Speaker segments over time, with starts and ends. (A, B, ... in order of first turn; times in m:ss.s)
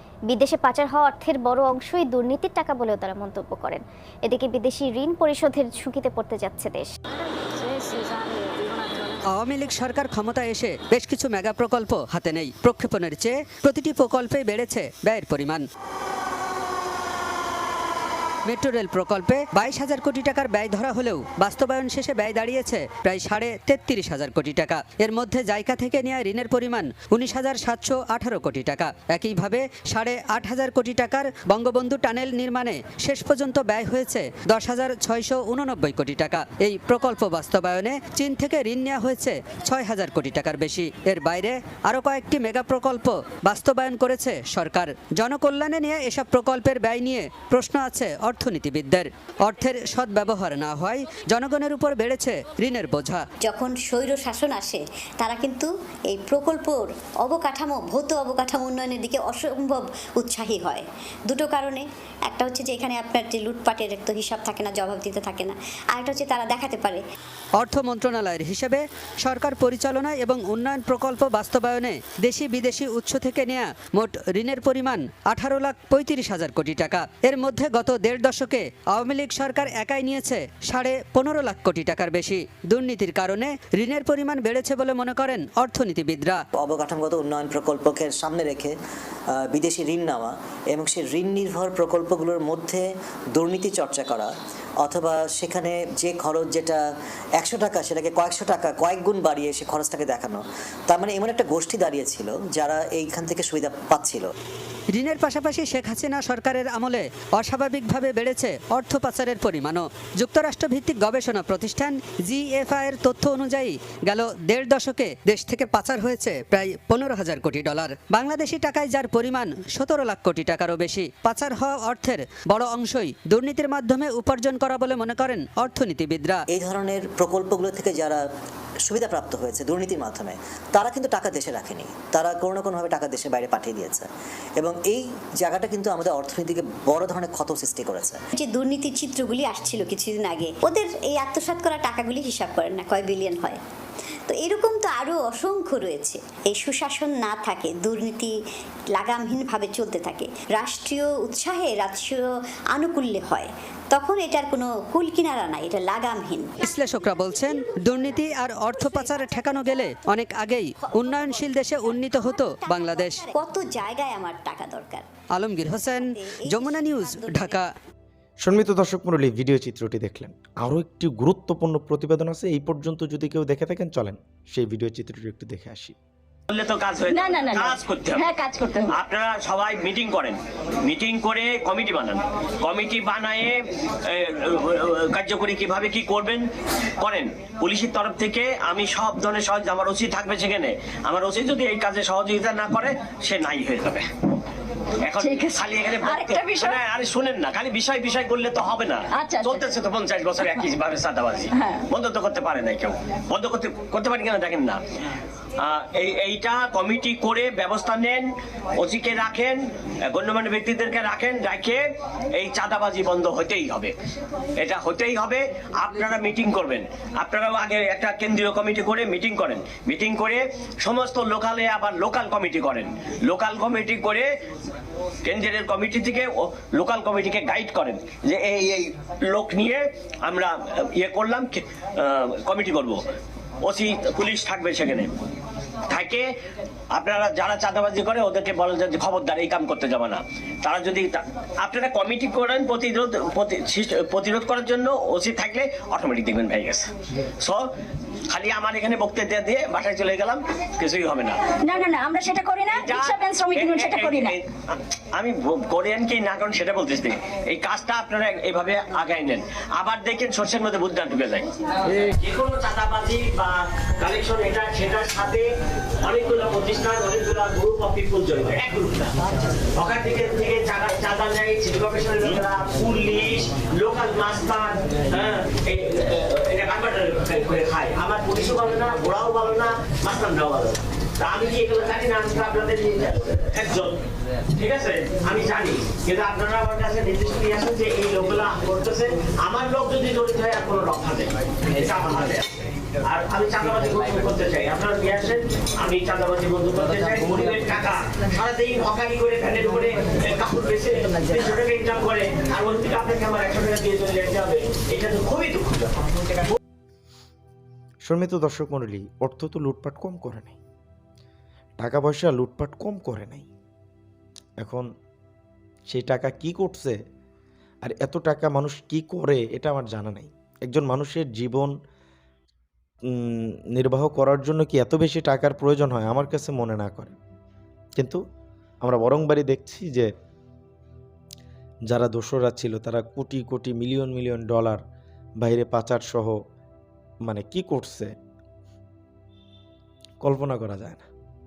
0:00.3-0:06.9 A
0:07.7-0:09.0 B
0:09.3-0:15.6 C
0:18.4-0:53.2 C
0:53.4-1:07.0 D
1:07.6-1:26.4 C
1:26.6-1:28.7 E
1:29.5-1:34.3 E
1:34.8-1:36.8 E
1:37.4-1:44.3 E
1:44.9-2:06.4 C
2:06.5-2:08.2 E
2:08.9-2:14.1 E
2:14.6-2:18.2 E
2:18.4-2:23.6 D
2:24.3-2:28.3 D
2:28.9-2:36.5 D
2:36.6-2:43.2 C
2:42.3-2:45.0 D
2:45.4-2:47.7 C
2:45.9-2:47.6 D
2:48.4-2:55.9 F
2:56.5-2:58.3 G
2:57.1-2:58.9 B
2:58.9-3:06.4 G
3:07.0-3:14.1 G
3:15.0-3:24.8 G
3:15.1-3:16.8 B
3:19.1-3:19.6 B
3:21.5-3:21.8 B
3:25.6-3:28.3 G
3:28.8-3:31.8 G
3:32.4-3:33.9 G
3:34.6-3:44.3 G
3:45.2-3:53.0 G
3:53.6-3:55.1 G
3:55.9-3:56.2 G
3:56.9-4:06.9 G
4:08.3-4:11.4 G
4:11.6-4:14.4 B
4:12.7-4:25.4 G
4:26.0-4:29.1 G
4:29.7-4:44.0 G
4:44.6-4:52.5 G
4:53.0-5:06.0 G
5:08.0-5:10.6 F
5:11.8-5:13.5 F
5:14.6-5:14.9 F
5:15.9-5:17.0 F
5:17.8-5:21.7 F
5:23.1-5:27.2 F
5:28.0-5:28.2 F
5:28.8-5:30.1 F
5:31.9-5:34.8 F
5:35.4-5:36.4 F
5:37.2-5:38.1 F
5:40.2-5:41.0 F